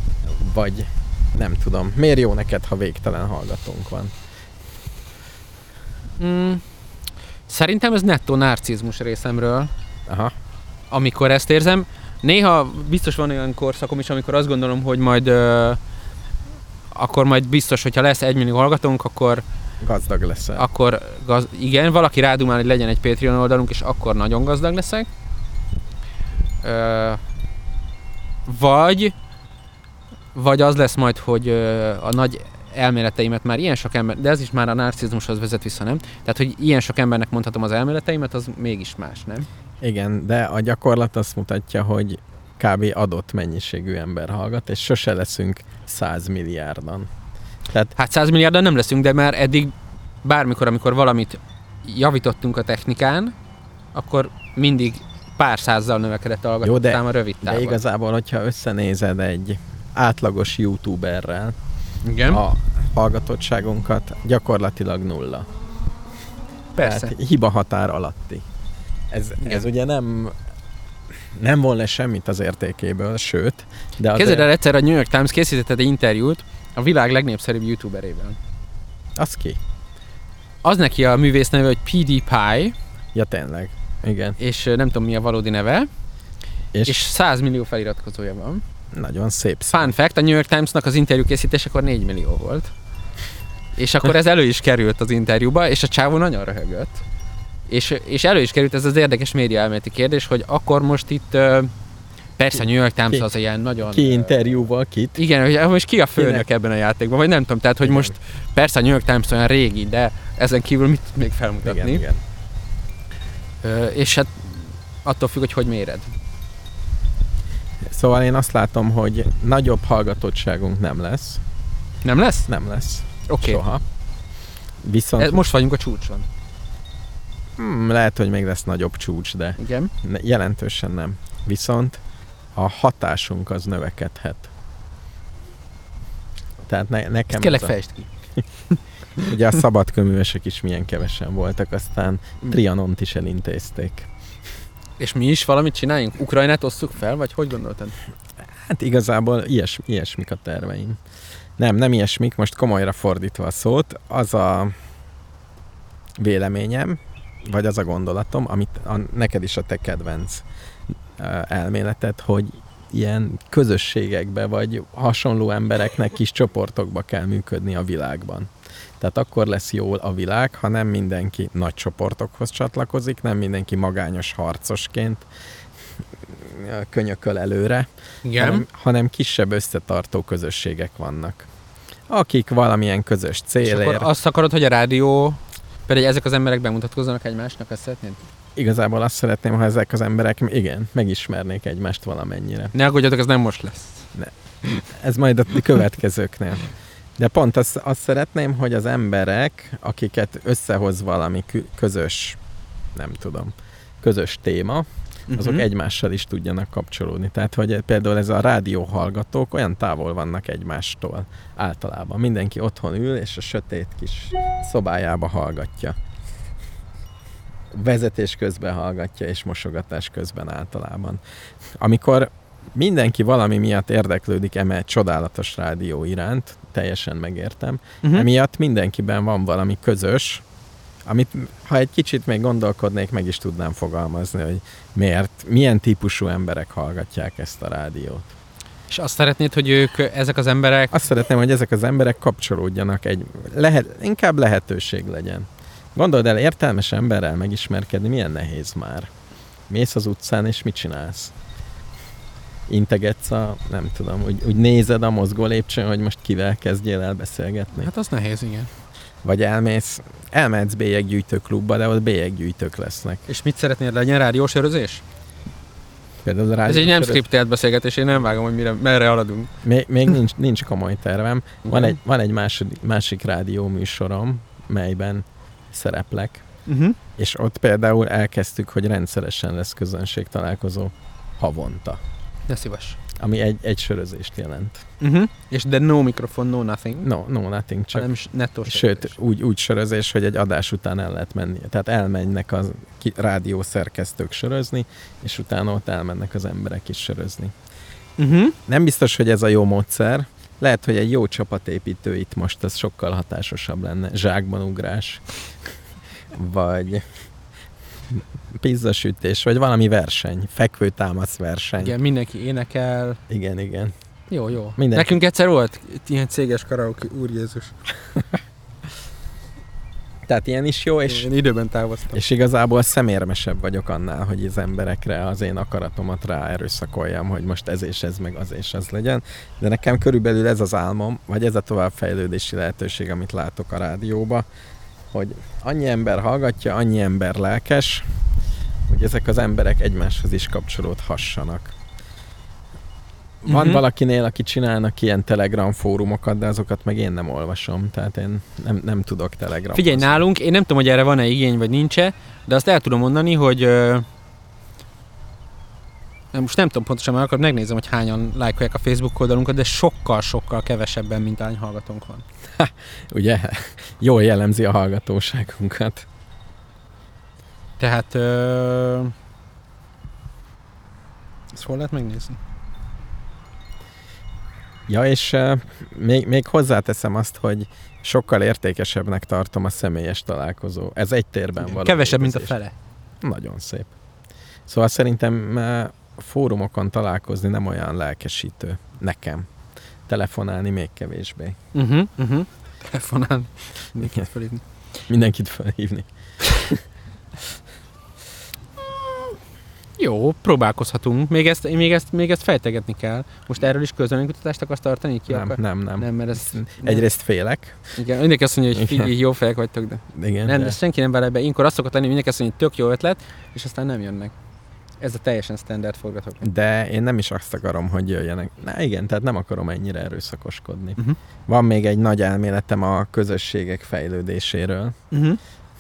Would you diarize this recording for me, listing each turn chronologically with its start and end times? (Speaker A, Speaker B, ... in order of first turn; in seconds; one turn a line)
Speaker A: 0.2-4.2
Speaker B: 6.2-6.6
Speaker B: 7.5-9.7
Speaker A: 10.1-10.3
Speaker B: 10.9-15.8
Speaker B: 16.9-19.4
Speaker A: 19.8-20.7
Speaker B: 20.6-25.1
Speaker B: 26.6-27.2
Speaker B: 28.5-29.1
Speaker B: 30.3-39.5
Speaker A: 39.8-47.1
Speaker B: 48.0-53.3
Speaker B: 53.9-57.8
Speaker A: 56.6-61.6
Speaker B: 62.0-62.4
Speaker A: 62.2-65.5
Speaker B: 66.8-67.1
Speaker A: 66.8-68.4
Speaker A: 69.1-70.3
Speaker A: 71.3-74.5
Speaker B: 74.1-78.4
Speaker A: 79.2-79.6
Speaker B: 80.6-82.8
Speaker A: 83.2-84.4
Speaker B: 84.4-85.9
Speaker A: 86.7-87.0
Speaker B: 86.8-88.6
Speaker A: 88.9-89.9
Speaker B: 89.7-92.7
Speaker B: 93.8-97.0
Speaker B: 97.7-101.7
Speaker B: 102.4-104.3
Speaker A: 102.5-103.3
Speaker A: 103.8-105.2
Speaker B: 105.2-112.0
Speaker A: 106.2-106.5
Speaker A: 107.8-108.2
Speaker A: 111.6-112.2
Speaker B: 113.6-116.1
Speaker A: 117.9-121.4
Speaker B: 122.0-122.5
Speaker A: 122.5-123.8
Speaker B: 123.3-123.6
Speaker A: 124.8-125.4
Speaker B: 125.2-126.3
Speaker A: 127.6-132.0
Speaker B: 129.6-129.9
Speaker A: 132.6-134.5
Speaker A: 136.7-137.8
Speaker B: 137.3-138.1
Speaker A: 139.2-144.1
Speaker B: 145.0-148.0
Speaker A: 148.6-151.0
Speaker A: 151.6-154.8
Speaker A: 156.2-160.4
Speaker A: 161.2-175.3
Speaker A: 176.2-181.5
Speaker B: 178.2-178.7
Speaker A: 182.1-184.1
Speaker B: 183.6-188.3
Speaker A: 188.6-192.7
Speaker B: 192.7-194.1
Speaker A: 194.1-202.4
Speaker A: 202.9-216.0
Speaker B: 205.3-205.7
Speaker A: 217.7-221.2
Speaker A: 221.8-230.4
Speaker A: 231.1-238.3
Speaker B: 238.9-240.9
Speaker A: 240.9-249.1
Speaker A: 249.7-251.3
Speaker A: 252.7-257.9
Speaker B: 257.8-258.7
Speaker A: 259.2-263.3
Speaker B: 263.3-265.0
Speaker A: 266.2-267.2
Speaker B: 266.6-269.5
Speaker A: 269.6-276.5
Speaker B: 271.7-272.0
Speaker B: 276.7-277.0
Speaker A: 277.2-282.0
Speaker B: 282.5-283.0
Speaker A: 283.2-284.9
Speaker B: 285.0-287.1
Speaker A: 287.0-288.1
Speaker B: 287.9-289.2
Speaker A: 288.7-297.5
Speaker B: 298.2-298.6
Speaker A: 298.7-305.7
Speaker A: 306.3-307.1
Speaker A: 308.1-312.0
Speaker B: 311.8-313.2
Speaker A: 313.3-313.9
Speaker B: 314.3-317.8
Speaker A: 314.8-315.2
Speaker A: 320.3-321.3
Speaker B: 321.1-322.2
Speaker A: 322.1-334.5
Speaker A: 335.1-338.1
Speaker A: 338.9-341.8
Speaker A: 343.4-350.2
Speaker B: 343.5-343.8
Speaker B: 349.7-354.1
Speaker B: 356.3-362.2
Speaker A: 362.6-366.1
Speaker B: 367.8-369.1
Speaker B: 371.5-372.4
Speaker A: 374.9-382.6
Speaker B: 381.6-382.8
Speaker A: 383.2-383.9
Speaker A: 384.7-389.5
Speaker A: 390.1-391.6
Speaker B: 391.7-394.6
Speaker A: 395.1-396.8
Speaker B: 400.0-407.1
Speaker A: 405.3-407.8
Speaker B: 407.9-414.3
Speaker A: 408.7-409.1
Speaker A: 410.1-410.8
Speaker B: 415.0-416.5
Speaker A: 416.4-425.0
Speaker B: 425.1-425.4